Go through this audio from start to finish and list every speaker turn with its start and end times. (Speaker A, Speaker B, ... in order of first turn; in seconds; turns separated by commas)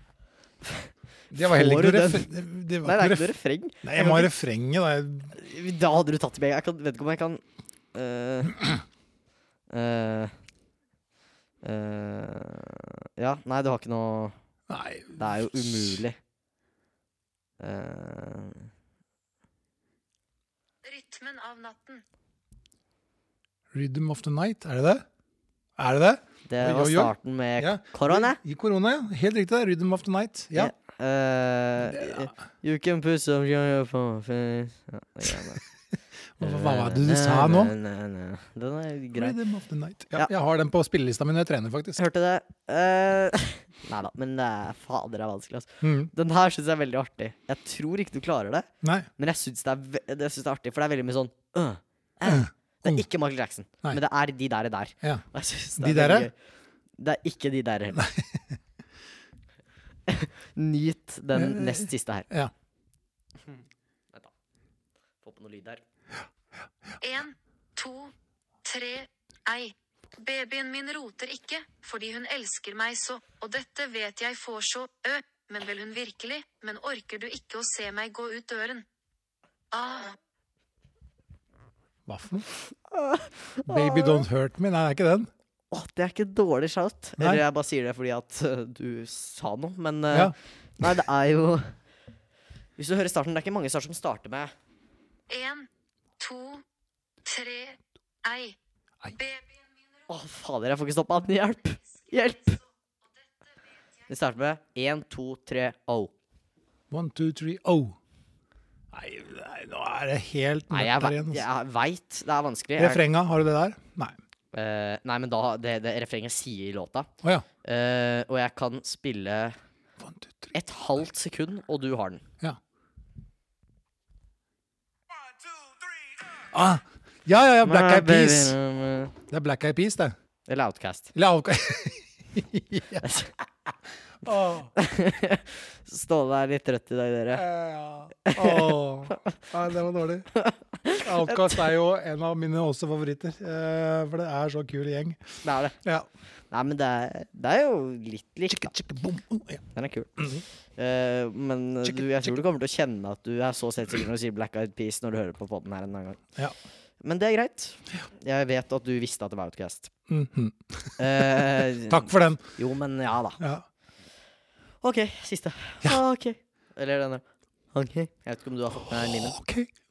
Speaker A: 1.3-5.3, Speaker B: 1.4-2.3, Speaker B: 2.8-4.3, Speaker B: 5.3-7.4, Speaker B: 7.9-8.7, Speaker B: 9.7-10.3, Speaker B: 11.6-14.3, Speaker A: 14.7-16.0, Speaker B: 15.2-16.2, Speaker B: 17.6-18.7, Speaker C: 20.8-22.0, Speaker A: 23.7-25.0, Speaker A: 25.8-30.7, Speaker B: 26.5-28.4, Speaker B: 30.5-35.6, Speaker A: 31.9-32.3, Speaker A: 36.4-37.7, Speaker B: 36.4-39.4, Speaker A: 39.1-42.0, Speaker B: 42.0-56.3, Speaker A: 45.8-46.1, Speaker A: 48.8-49.1, Speaker A: 52.2-53.0, Speaker A: 55.8-56.3, Speaker B: 57.0-58.0, Speaker A: 58.0-58.4, Speaker B: 60.1-62.3, Speaker A: 61.3-62.5, Speaker B: 65.2-65.8, Speaker C: 67.0-68.1, Speaker C: 68.6-78.8, Speaker C: 79.7-80.2, Speaker A: 82.0-82.5, Speaker B: 83.0-84.2, Speaker A: 83.6-85.3, Speaker B: 85.7-91.7, Speaker B: 92.8-94.5, Speaker C: 95.3-95.7, Speaker C: 96.2-96.6, Speaker C: 97.2-98.5, Speaker C: 99.1-99.7, Speaker B: 100.1-102.6, Speaker C: 102.0-102.6, Speaker B: 104.1-106.1, Speaker A: 106.9-108.0, Speaker A: 108.9-111.5, Speaker B: 110.7-113.0, Speaker A: 112.8-114.2, Speaker B: 114.5-117.1, Speaker B: 117.6-119.6, Speaker A: 120.0-120.5, Speaker B: 120.5-122.2, Speaker A: 126.3-128.6, Speaker B: 127.6-129.1, Speaker A: 129.3-130.1, Speaker B: 130.5-131.1, Speaker A: 131.1-133.2, Speaker B: 133.0-133.3, Speaker A: 134.2-134.7, Speaker B: 134.8-137.4, Speaker A: 137.3-140.3, Speaker B: 138.2-139.2, Speaker B: 140.3-141.6, Speaker A: 140.9-145.2, Speaker B: 145.4-145.8, Speaker B: 146.5-148.7, Speaker A: 148.5-149.6, Speaker B: 149.7-156.2, Speaker A: 151.8-152.3, Speaker B: 157.0-159.9, Speaker A: 160.1-162.4, Speaker B: 161.0-163.4, Speaker A: 163.4-163.6, Speaker B: 164.8-169.4, Speaker A: 168.9-169.7